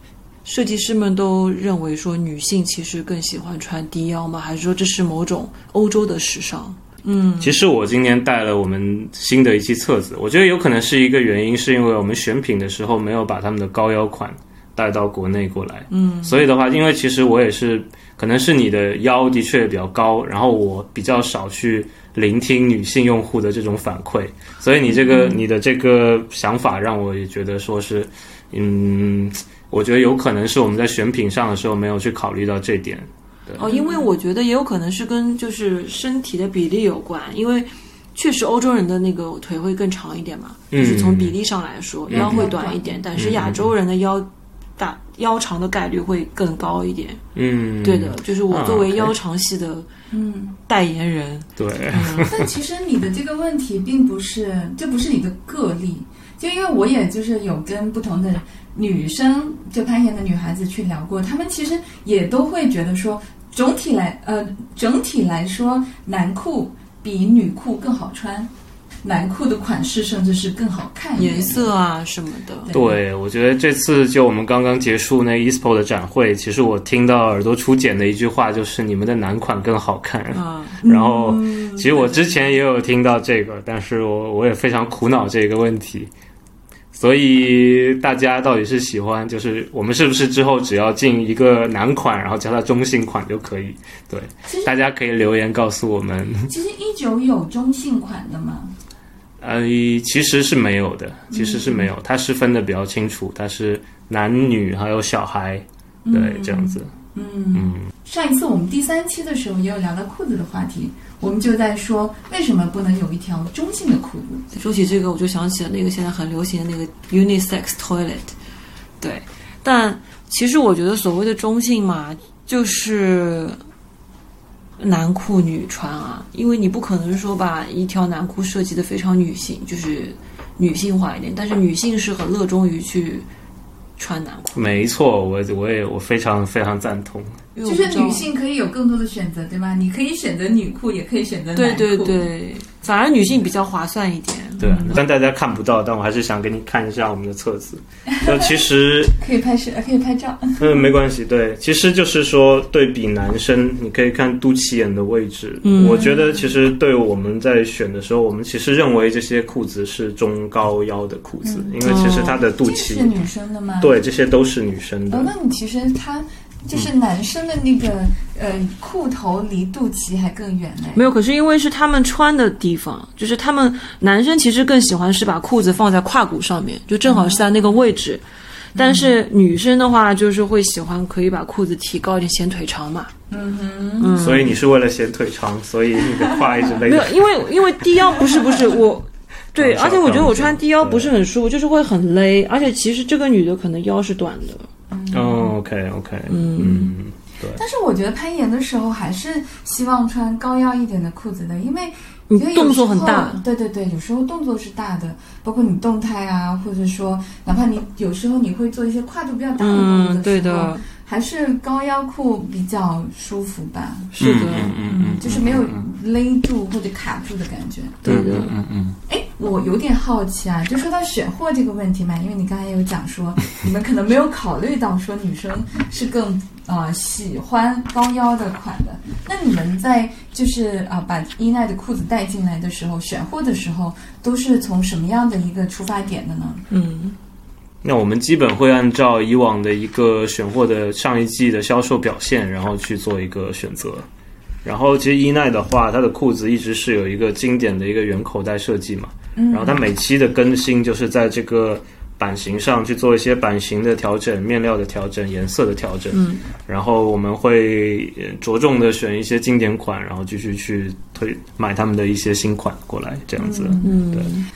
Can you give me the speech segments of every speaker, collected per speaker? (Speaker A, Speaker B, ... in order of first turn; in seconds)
Speaker A: 0.4-7.5, 15.9-16.4, 25.1-25.4, 33.6-47.2, 47.8-49.9, 50.7-52.3, 71.2-72.7, 80.3-80.9, 81.8-82.3, 114.5-118.3, 119.0-123.6, 124.8-133.3, 134.0-134.7, 137.5-138.3, 141.5-145.0, 155.6-156.1, 161.8-162.4, 170.9-178.2, 178.7-183.1, 184.0-184.6, 186.8-194.7, 196.3-196.9, 202.3-203.4, 209.6-210.8, 214.1-214.8, 218.0-218.5, 236.7-237.2, 256.1-256.4, 263.8-264.5
Speaker B: 7.4-33.7, 40.7-41.4, 42.1-42.5, 43.1-43.7, 47.4-49.1, 51.6-52.4, 72.7-86.1, 86.9-96.5, 99.4-106.9, 107.5-107.9, 134.5-137.4, 144.6-149.2, 150.6-163.1, 163.8-165.3, 184.2-187.2, 189.6-191.1, 195.1-197.6, 214.2-215.8, 218.0-219.0, 237.8-244.1, 244.6-264.3
Speaker C: 33.6-34.1, 42.1-43.0, 50.1-50.6, 52.2-68.5, 69.0-71.7, 72.7-73.0, 80.8-81.8, 94.5-94.7, 96.5-98.7, 101.3-101.9, 106.0-114.4, 137.6-142.2, 144.6-145.0, 148.1-150.9, 155.8-156.5, 161.4-161.8, 162.5-164.0, 165.1-171.1, 177.0-177.5, 178.8-179.1, 183.3-184.2, 194.9-195.6, 197.6-218.2, 219.1-236.6, 249.3-249.8, 263.4-264.0